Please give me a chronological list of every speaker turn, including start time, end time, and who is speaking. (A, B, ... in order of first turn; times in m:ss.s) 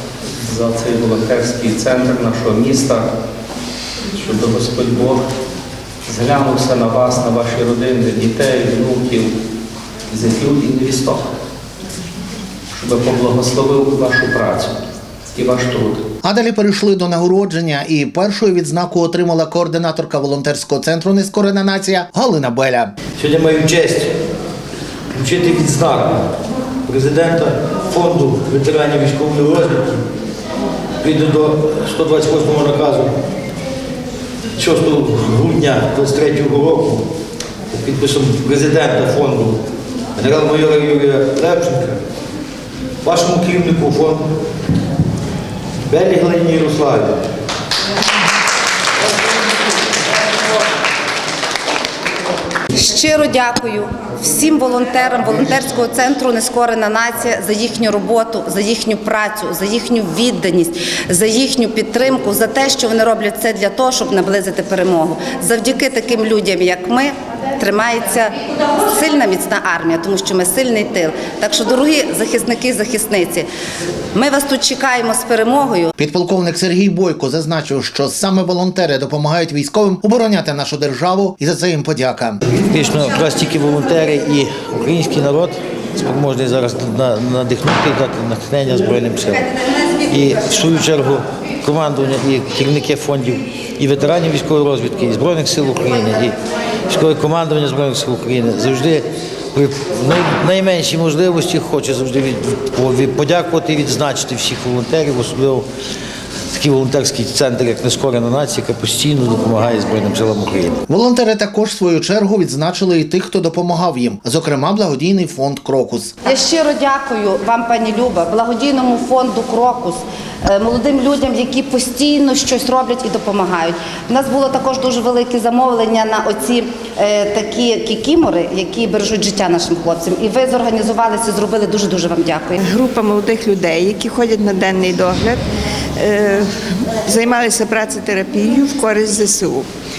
0:00.4-0:03.1 A
0:04.2-0:05.2 A
0:06.0-0:09.3 A
0:10.1-0:11.2 A
0:12.7-0:14.7 A
0:15.3-0:16.0 A
0:16.2-0:22.9 B
0:23.2-0:24.1 C
0:25.1-0:26.3 C
0:26.8-0:30.0 C
0:31.0-0:33.1 C
0:34.6-0:37.0 C
0:37.7-0:39.6 C
0:40.2-0:42.0 C
0:43.0-0:44.2 C
0:45.9-0:47.2 C
0:52.7-1:13.5 D
1:14.1-1:15.9 D
1:16.0-1:22.4 B
1:22.5-1:36.3 C
1:36.9-1:45.7 C
1:46.5-1:50.8 C
1:50.9-1:56.1 B
1:56.2-2:12.6 D
2:12.6-2:15.4 E
2:16.0-2:16.5 E
2:17.0-2:19.7 E